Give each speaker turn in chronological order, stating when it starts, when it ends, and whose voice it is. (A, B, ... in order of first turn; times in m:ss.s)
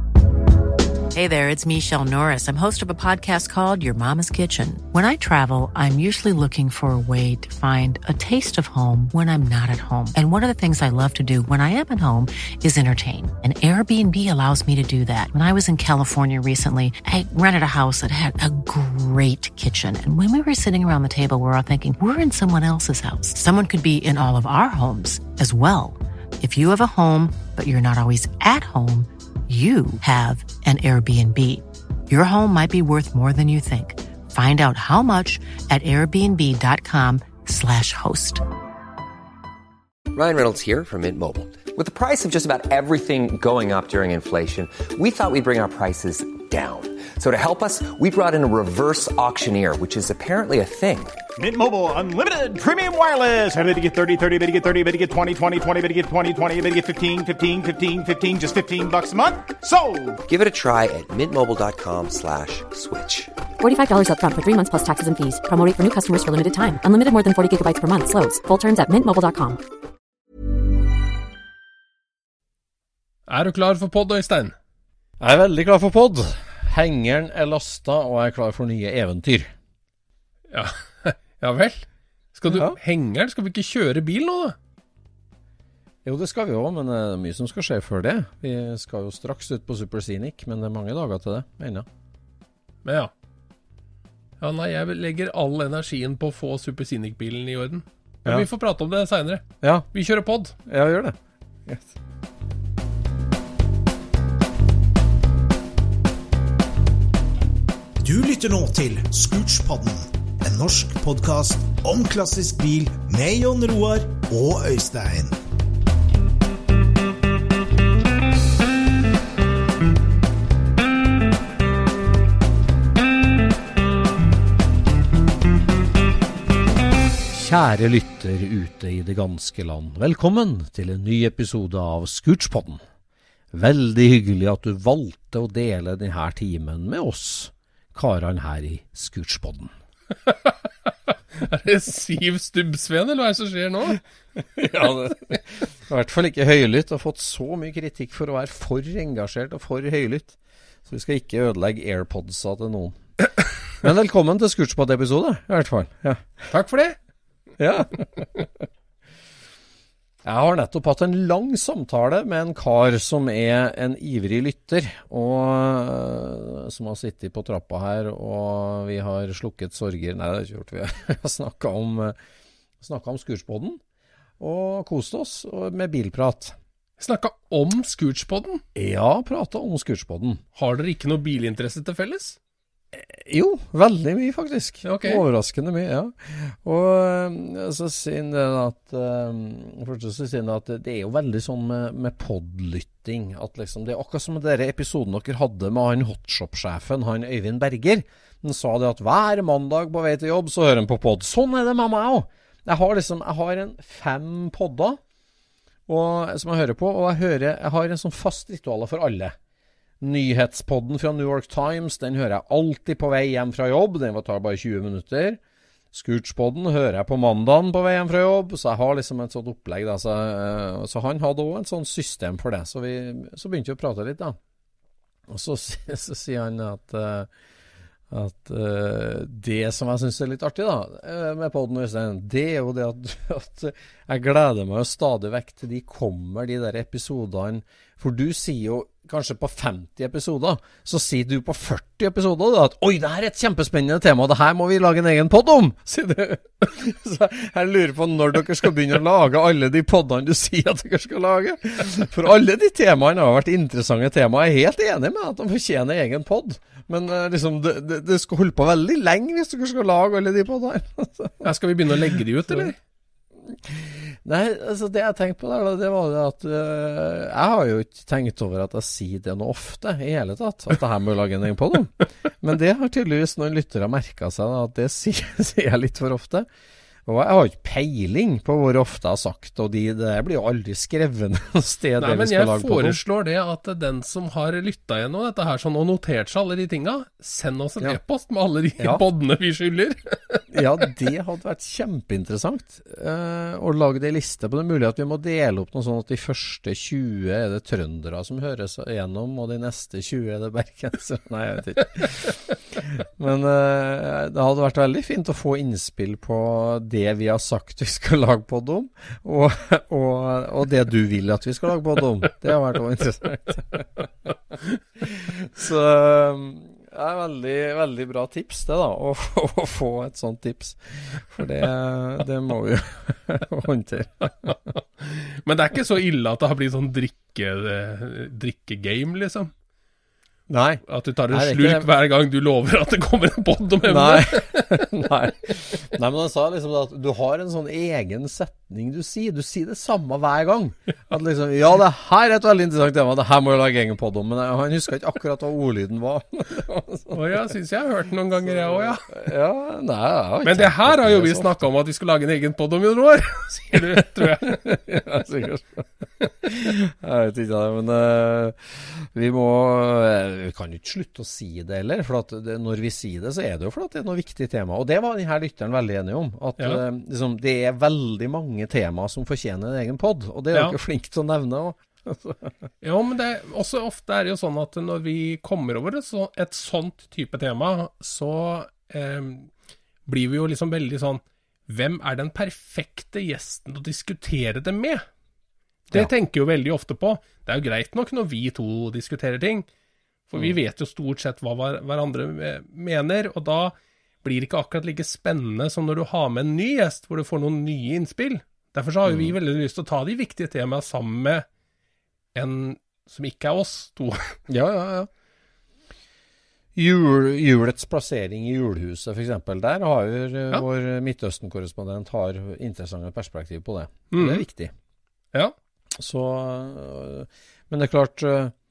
0:01.1-0:38.4 A
0:40.1-0:51.2 B
0:51.4-1:00.2 C
1:00.3-1:03.3 B
1:03.6-1:09.6 D
1:13.3-1:14.5 E
1:15.2-1:19.5 F
1:20.5-1:24.6 E
1:22.5-1:22.8 F
1:26.0-1:31.9 F
1:32.8-1:33.1 E
1:34.4-1:40.5 E
1:39.6-1:39.9 F
1:40.6-1:41.9 F
1:48.0-1:55.4 G
2:07.3-2:12.8 F
2:13.5-2:19.7 F
2:20.3-2:24.0 E
2:24.4-2:33.0 F
2:33.8-2:36.5 F
2:36.5-2:37.0 E
2:37.6-2:38.5 F
2:40.2-2:52.2 F
2:52.8-2:53.8 F
2:54.4-2:56.6 F
2:57.0-2:58.6 E
2:58.8-3:00.4 F
3:00.6-3:02.4 E
3:02.9-3:25.0 F
3:04.8-3:05.2 E
3:25.9-3:29.4 F
3:30.0-3:35.4 F
3:35.9-3:44.4 F
3:45.3-3:47.3 F
3:48.1-4:21.5 F
4:21.4-4:22.8 E
4:22.1-4:22.7 F
4:23.5-4:36.5 F
4:37.0-4:43.0 F
4:42.0-4:50.4 E
4:50.5-5:14.0 F
5:15.0-5:24.5 F
5:24.4-5:29.5 E
5:30.5-5:31.9 F
5:30.9-5:35.0 E
5:33.9-5:47.3 F
5:47.1-5:49.1 E
5:48.4-5:51.6 F
5:50.4-5:54.6 E
5:53.7-6:12.5 F
6:12.8-6:19.5 E
6:20.0-6:25.0 E
6:25.9-6:29.7 E
6:30.3-6:41.4 E
6:39.0-6:39.4 F
6:42.3-6:44.4 E
6:44.5-6:45.1 F
6:46.8-6:54.7 F
6:54.1-6:54.4 E
6:56.0-6:58.5 F